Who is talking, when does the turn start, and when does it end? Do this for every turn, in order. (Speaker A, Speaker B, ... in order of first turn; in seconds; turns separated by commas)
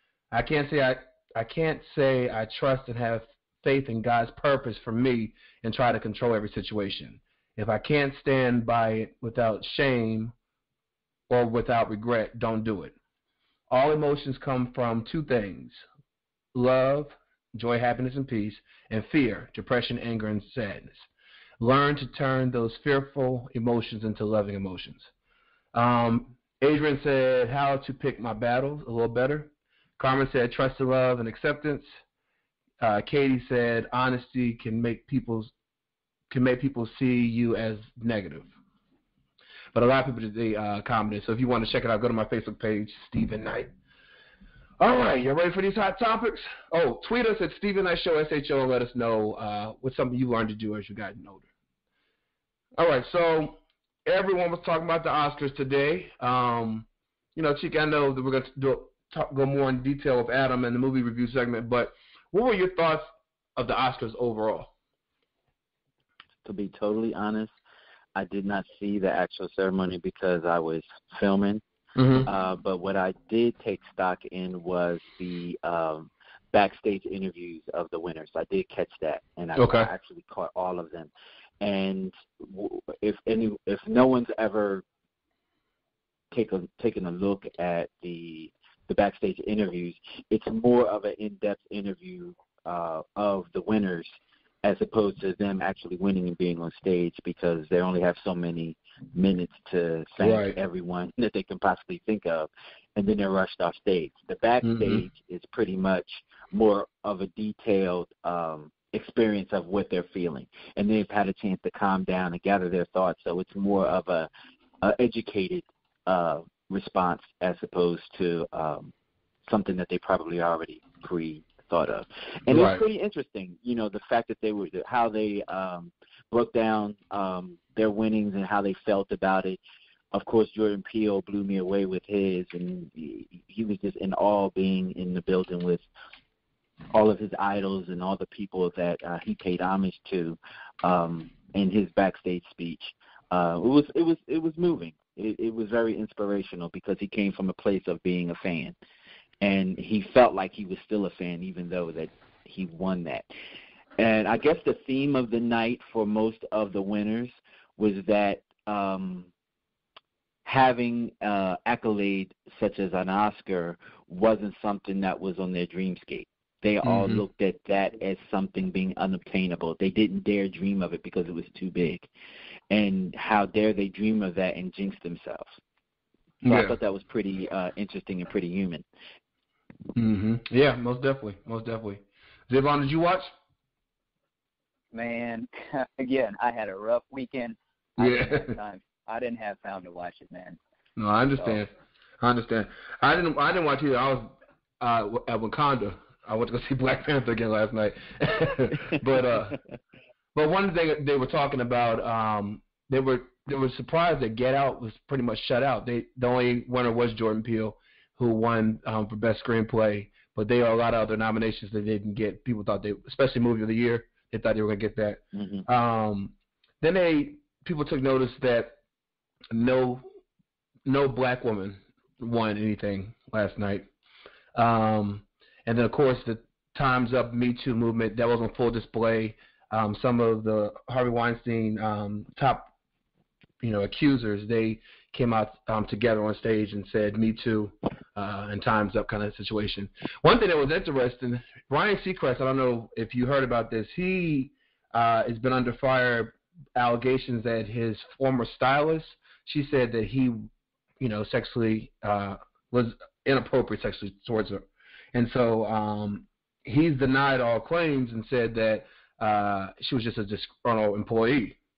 Speaker A: 0.3-10.3, Speaker A: 11.3-12.9, Speaker A: 13.7-15.8, Speaker A: 16.5-21.1, Speaker A: 21.6-25.1, Speaker A: 25.7-31.9, Speaker A: 32.8-35.5, Speaker A: 36.3-38.5, Speaker A: 39.7-43.7, Speaker A: 44.8-51.5, Speaker A: 52.8-64.7, Speaker B: 66.4-67.5, Speaker B: 68.1-71.6, Speaker A: 72.0-72.3, Speaker B: 72.2-84.8, Speaker A: 79.5-79.9, Speaker B: 86.3-114.3, Speaker A: 100.2-100.5, Speaker A: 104.6-105.0, Speaker B: 114.8-118.9, Speaker B: 119.5-129.6, Speaker A: 122.5-122.8, Speaker B: 130.1-135.8, Speaker B: 136.9-148.7, Speaker B: 149.4-153.3, Speaker B: 154.0-159.3, Speaker B: 160.4-172.1, Speaker A: 166.8-167.2, Speaker B: 172.7-175.6, Speaker B: 176.4-178.8, Speaker A: 176.4-176.8, Speaker A: 179.9-183.3, Speaker C: 184.9-190.6, Speaker A: 188.0-188.5, Speaker A: 191.0-191.7, Speaker A: 192.2-199.6, Speaker A: 200.3-218.7, Speaker B: 215.3-215.6, Speaker A: 219.5-220.0, Speaker A: 220.8-223.9, Speaker A: 224.5-232.7, Speaker A: 233.6-250.4, Speaker A: 251.0-261.6